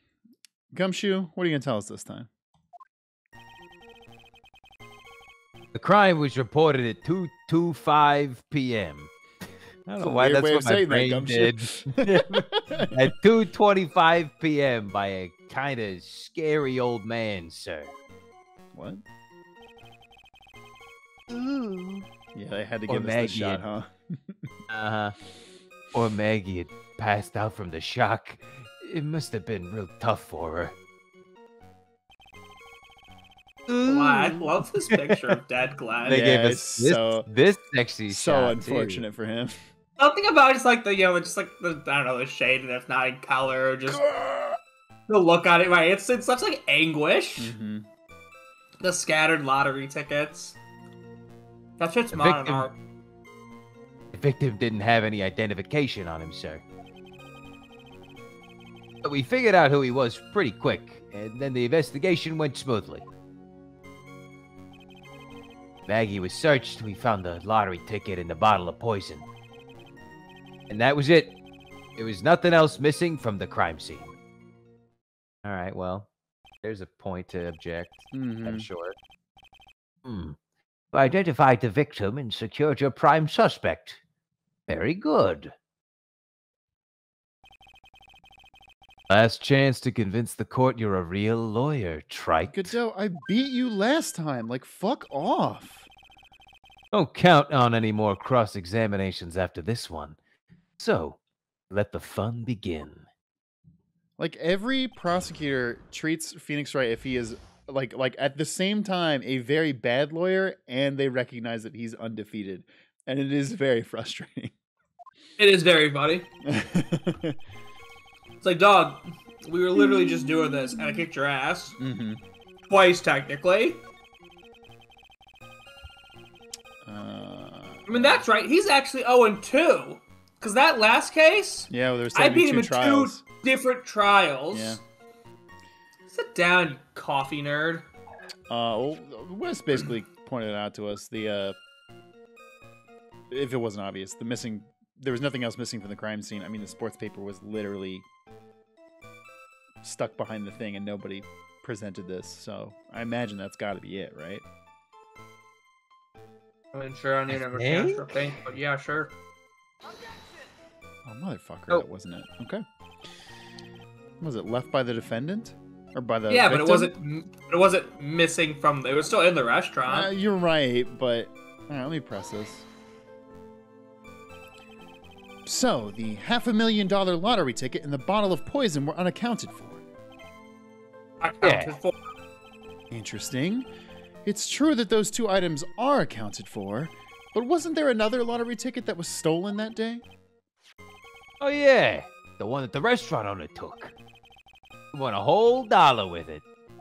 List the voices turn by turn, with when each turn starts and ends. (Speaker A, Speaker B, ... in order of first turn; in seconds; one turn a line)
Speaker A: 0.7-2.3
Speaker B: 5.7-9.1
Speaker B: 9.9-17.9
Speaker A: 10.0-13.1
Speaker A: 18.7-19.0
Speaker B: 21.3-22.1
Speaker A: 22.4-24.4
Speaker B: 22.9-23.6
Speaker B: 24.7-25.1
Speaker B: 25.9-30.8
Speaker B: 33.7-35.3
Speaker C: 33.8-36.2
Speaker A: 36.1-37.3
Speaker B: 36.1-39.1
Speaker A: 38.1-39.6
Speaker C: 40.0-44.0
Speaker A: 43.9-44.6
Speaker C: 45.1-47.5
Speaker A: 47.4-47.9
Speaker C: 48.8-50.6
Speaker C: 51.8-52.8
Speaker B: 52.1-52.7
Speaker B: 54.1-56.6
Speaker B: 59.0-63.1
Speaker B: 65.9-69.2
Speaker B: 70.7-71.3
Speaker B: 72.0-74.1
Speaker B: 75.4-76.1
Speaker B: 76.6-79.0
Speaker A: 78.1-78.7
Speaker B: 80.0-80.4
Speaker B: 80.9-84.0
Speaker B: 84.7-85.5
Speaker B: 89.1-92.8
Speaker A: 92.5-95.9
Speaker B: 96.9-100.2
Speaker B: 100.8-101.2
Speaker B: 101.7-103.0
Speaker A: 104.2-114.5
Speaker C: 115.4-116.3
Speaker A: 116.5-117.4
Speaker C: 118.4-121.8
Speaker A: 121.8-122.2
Speaker C: 122.7-123.8
Speaker A: 126.8-128.2
Speaker C: 127.9-134.8
Speaker A: 131.7-133.2
Speaker A: 134.5-134.8
Speaker C: 136.1-137.9
Speaker A: 138.5-141.6
Speaker A: 143.3-148.1
Speaker A: 149.8-154.4
Speaker C: 156.7-159.1
Speaker B: 157.3-158.3
Speaker A: 161.1-162.6
Speaker A: 164.2-166.9
Speaker C: 166.3-170.1
Speaker A: 169.9-172.7
Speaker A: 175.5-179.8
Speaker C: 181.2-181.9
Speaker B: 181.4-181.8
Speaker A: 182.9-183.7
Speaker A: 184.2-190.0
Speaker B: 191.4-193.9
Speaker B: 194.9-196.4